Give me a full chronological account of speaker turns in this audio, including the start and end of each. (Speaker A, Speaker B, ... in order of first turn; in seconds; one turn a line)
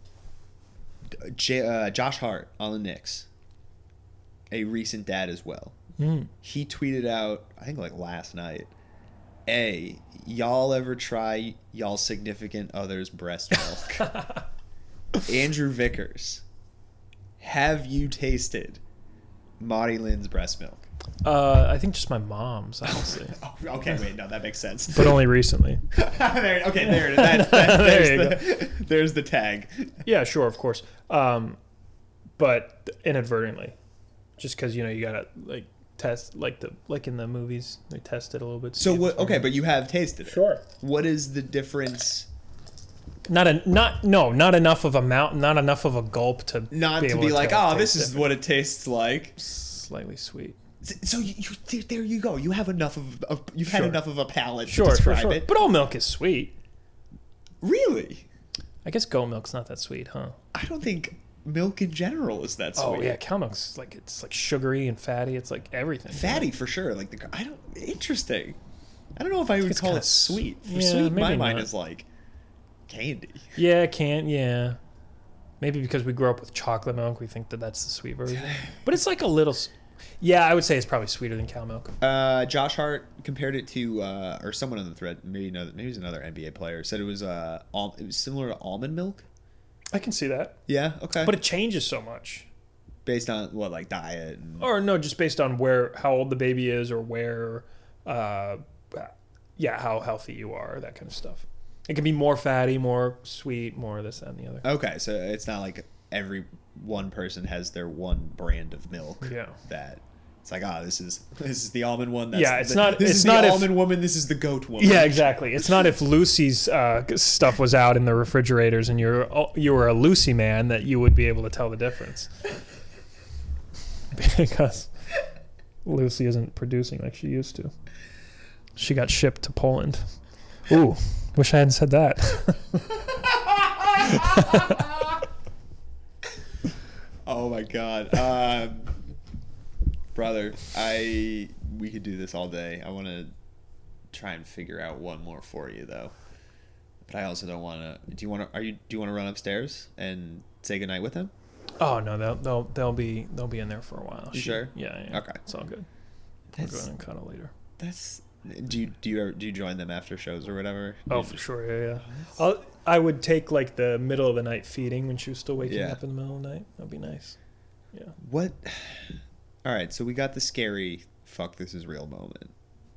Speaker A: 1.1-3.3
Speaker A: 4.5-5.8
Speaker B: 6.0-6.3
Speaker A: 6.4-8.7
Speaker A: 9.5-14.1
Speaker A: 15.2-16.4
Speaker A: 17.4-18.8
Speaker A: 19.6-20.9
Speaker B: 21.2-23.4
Speaker A: 22.9-25.2
Speaker B: 24.9-25.8
Speaker A: 25.9-30.0
Speaker B: 26.9-28.5
Speaker B: 30.0-31.6
Speaker B: 32.4-33.7
Speaker B: 34.4-39.6
Speaker A: 38.8-42.3
Speaker B: 40.2-40.6
Speaker B: 43.3-48.3
Speaker A: 46.7-49.4
Speaker B: 49.4-50.6
Speaker A: 50.8-55.5
Speaker B: 53.7-54.0
Speaker B: 54.6-56.5
Speaker A: 57.6-58.2
Speaker B: 58.8-60.4
Speaker A: 60.5-63.2
Speaker B: 62.8-66.5
Speaker A: 66.1-68.6
Speaker A: 69.2-72.1
Speaker B: 69.6-71.7
Speaker A: 72.9-73.5
Speaker B: 73.5-74.8
Speaker B: 75.6-81.9
Speaker A: 82.0-89.2
Speaker B: 89.9-90.6
Speaker A: 90.7-91.3
Speaker B: 91.2-92.5
Speaker A: 93.0-94.7
Speaker B: 94.6-104.7
Speaker A: 104.6-115.3
Speaker B: 109.2-109.5
Speaker B: 112.3-113.8
Speaker B: 114.8-122.3
Speaker B: 124.1-124.9
Speaker B: 125.8-127.7
Speaker B: 128.8-130.1
Speaker B: 130.7-132.8
Speaker A: 133.1-135.1
Speaker B: 134.1-134.7
Speaker A: 137.2-139.0
Speaker A: 140.1-143.3
Speaker A: 144.1-146.1
Speaker A: 147.1-151.3
Speaker B: 151.8-155.9
Speaker A: 154.3-155.4
Speaker A: 156.5-156.8
Speaker B: 156.5-157.5
Speaker A: 157.8-161.4
Speaker B: 161.1-167.3
Speaker A: 162.0-162.3
Speaker A: 165.6-166.0
Speaker A: 168.2-172.5